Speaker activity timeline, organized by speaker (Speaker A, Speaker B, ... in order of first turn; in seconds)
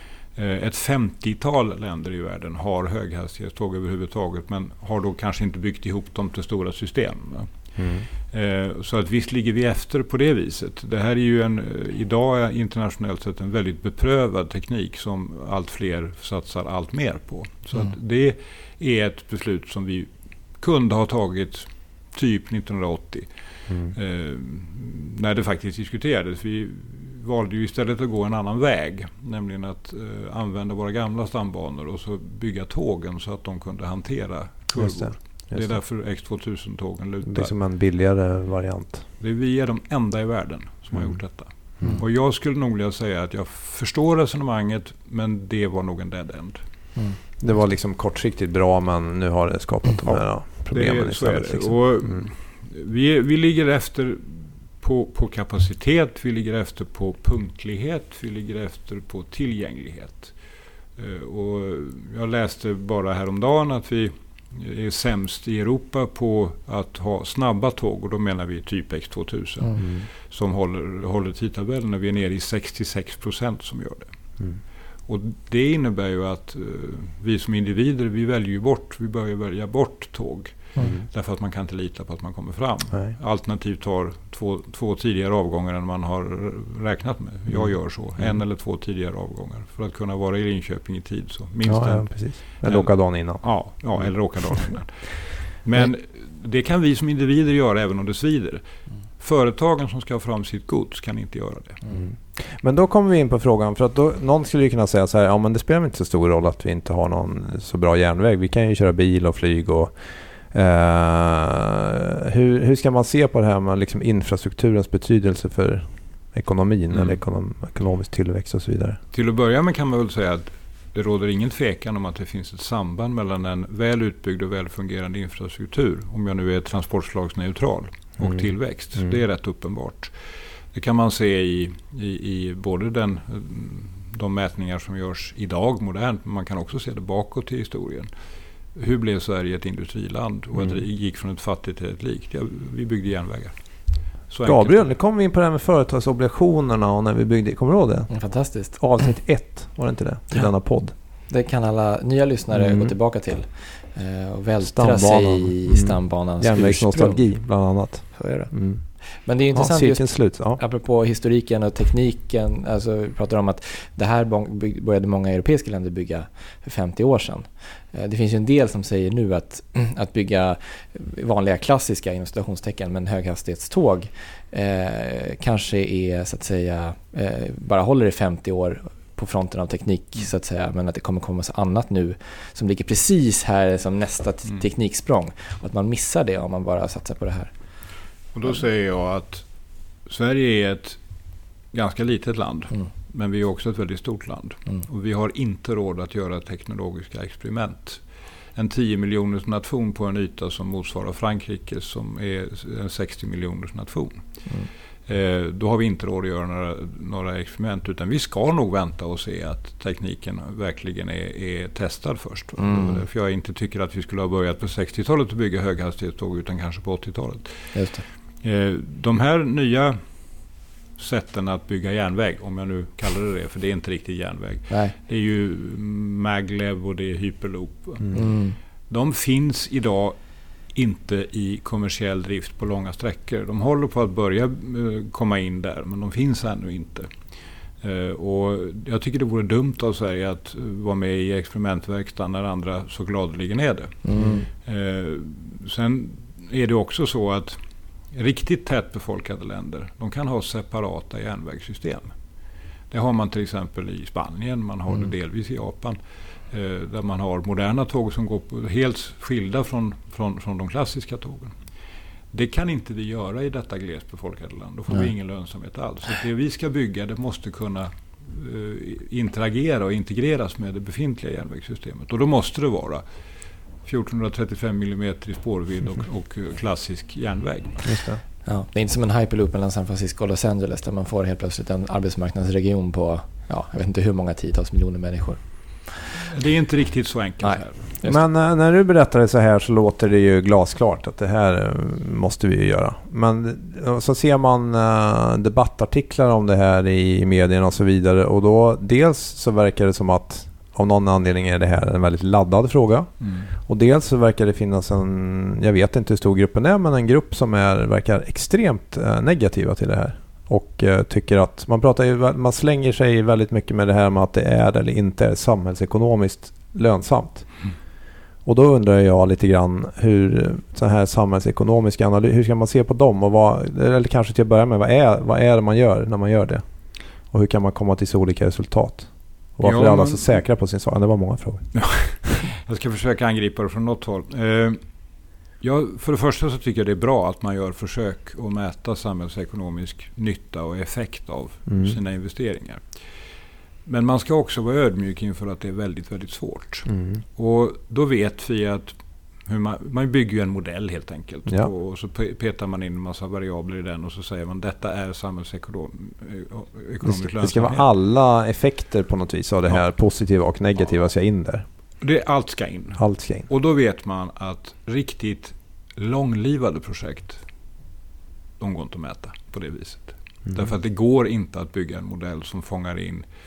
Speaker A: 0.3-7.6, 8.1-37.5, 39.2-46.6, 50.0-60.4, 61.0-74.1, 75.1-98.6, 99.2-101.8, 116.9-117.2, 119.1-130.1, 130.7-138.1, 138.7-144.9, 188.3-189.4, 190.0-191.0, 191.7-198.0, 198.5-204.5, 205.1-217.9, 218.4-220.0, 221.0-228.3, 228.9-230.2, 230.7-237.1, 237.8-247.6, 248.1-252.1, 252.9-256.0, 256.5-261.6, 262.3-273.0, 273.8-278.1, 286.2-287.9, 303.2-303.5, 329.6-330.4, 331.7-334.8, 335.6-342.9, 343.9-357.9, 362.0-367.4, 368.6-373.2
Speaker B: 7.8-8.1, 23.7-23.9, 34.8-35.8, 37.2-39.0, 47.4-52.3, 69.8-70.1, 80.8-81.0, 87.5-88.4, 91.6-94.6, 101.9-119.0, 144.4-150.9, 152.5-152.9, 154.6-158.8, 159.5-160.6, 277.8-278.2, 288.0-317.7, 318.4-326.6, 327.3-332.1, 341.7-341.9, 346.9-347.2, 357.0-361.6, 363.0-363.5
Speaker C: 148.1-148.8, 151.3-157.3, 158.1-187.5, 212.6-213.0, 217.7-218.0, 224.7-224.9, 228.1-228.6, 244.0-244.5, 278.4-286.0, 287.4-288.2